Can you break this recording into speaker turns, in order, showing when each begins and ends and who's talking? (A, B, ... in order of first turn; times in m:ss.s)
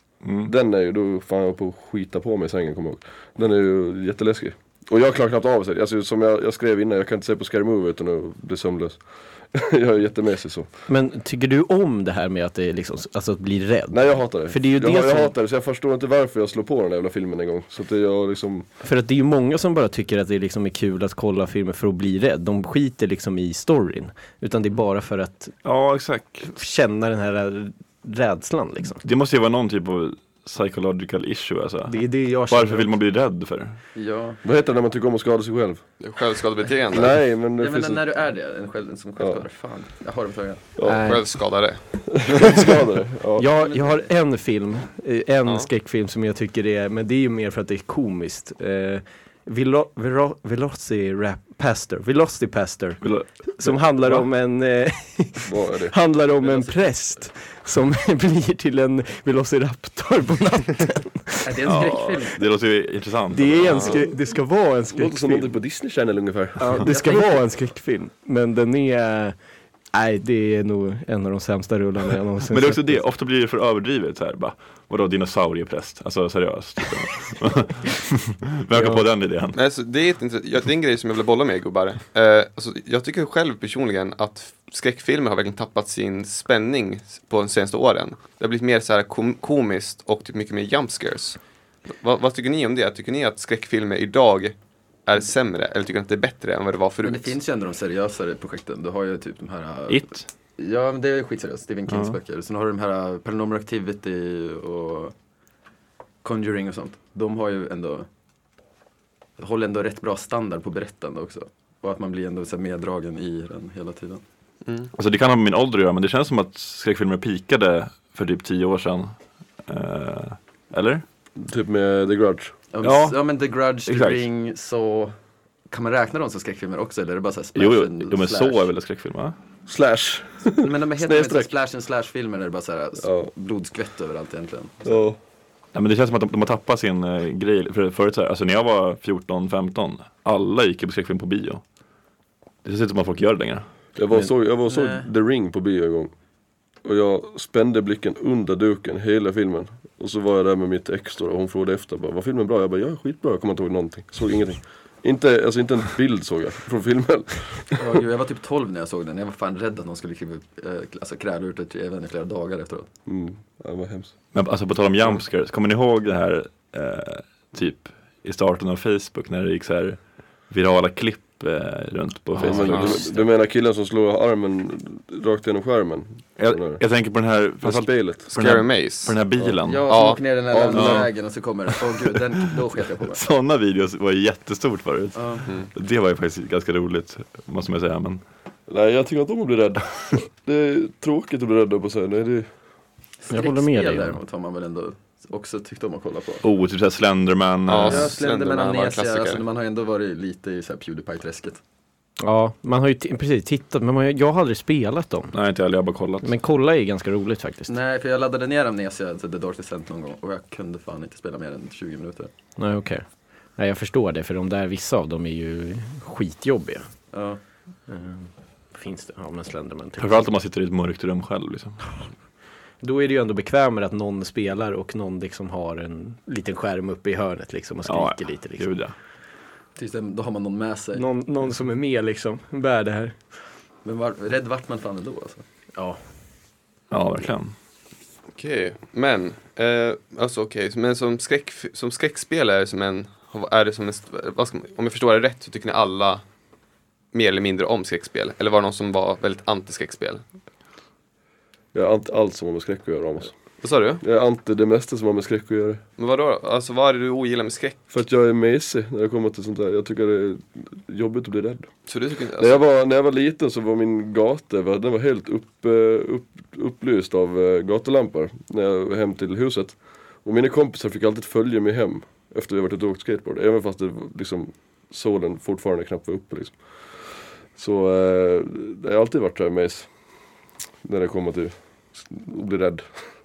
0:00.2-0:00.5 A
0:00.4-0:10.7 B
0:10.9-0:15.3 C
0:13.9-0:18.6 B
0:18.8-0:25.5 C
0:25.6-0:26.5 A
0:26.4-0:29.0 C
0:29.0-0:33.8 A
0:31.9-0:32.9 C
0:33.9-0:34.4 D
0:34.4-0:35.8 B
0:36.0-0:37.2 E
0:36.9-0:38.0 B
0:37.6-0:40.7 D
0:39.2-0:39.4 B
0:40.8-0:41.1 B
0:40.8-0:41.2 C
0:40.9-0:42.0 E
0:42.1-0:43.4 B
0:43.4-1:01.5 C
0:43.6-0:44.0 D
0:53.0-0:54.3 A
0:55.4-0:55.9 B
0:56.4-0:57.3 D
1:01.4-1:02.4 D
1:01.6-1:04.0 A
1:03.3-1:05.6 C
1:03.7-1:04.0 E
1:04.9-1:06.7 B
1:06.6-1:09.3 C
1:06.8-1:07.4 D
1:09.9-1:13.0 C
1:12.5-1:19.6 A
1:18.7-1:19.0 C
1:19.5-1:31.4 E
1:31.9-1:34.5 E
1:35.0-1:37.3 E
1:37.0-1:45.1 D
1:39.9-1:40.2 A
1:41.9-1:42.2 A
1:46.2-1:48.1 D
1:49.4-1:54.2 D
1:54.6-1:54.9 E
1:54.9-2:01.0 A
2:01.4-2:02.5 B
2:02.7-2:05.1 D
2:02.8-2:03.2 A
2:03.8-2:04.2 A
2:05.7-2:08.7 D
2:07.5-2:09.3 A
2:09.6-2:11.5 B
2:10.6-2:15.1 D
2:13.0-2:13.3 B
2:14.8-2:15.2 B
2:15.7-2:21.6 A
2:22.6-2:24.0 A
2:24.0-2:26.1 B
2:24.6-2:25.1 D
2:26.8-2:37.9 B
2:37.8-2:42.9 D
2:43.1-2:44.1 B
2:44.3-2:53.0 A
2:52.3-2:52.9 C
2:52.4-2:56.8 B
2:56.4-3:00.0 A
2:57.6-2:58.2 B
2:58.3-2:59.2 E
2:59.4-3:03.2 D
2:59.9-3:00.2 E
3:00.5-3:01.1 B
3:00.7-3:01.1 A
3:03.1-3:08.2 A
3:05.1-3:05.4 D
3:08.7-3:12.5 B
3:13.2-3:16.4 D
3:13.3-3:14.2 C
3:16.4-3:18.1 A
3:17.7-3:19.4 E
3:17.8-3:21.6 D
3:22.2-3:25.3 C
3:25.3-3:26.3 A
3:26.2-3:27.7 C
3:27.7-3:32.3 D
3:32.6-3:33.0 C
3:33.6-3:36.9 C
3:37.1-3:37.4 D
3:37.9-3:40.3 C
3:40.0-3:42.0 A
3:42.8-3:48.7 C
3:47.8-3:48.9 A
3:49.8-3:51.0 D
3:50.9-3:53.2 C
3:53.8-3:55.4 D
3:56.9-3:57.5 A
3:58.3-4:06.2 E
4:07.1-4:10.2 E
4:11.7-4:13.3 B
4:13.6-4:14.0 E
4:14.0-4:15.8 B
4:16.0-4:17.8 E
4:17.9-4:21.7 B
4:21.9-4:22.6 E
4:22.4-4:39.9 B
4:40.8-4:42.9 B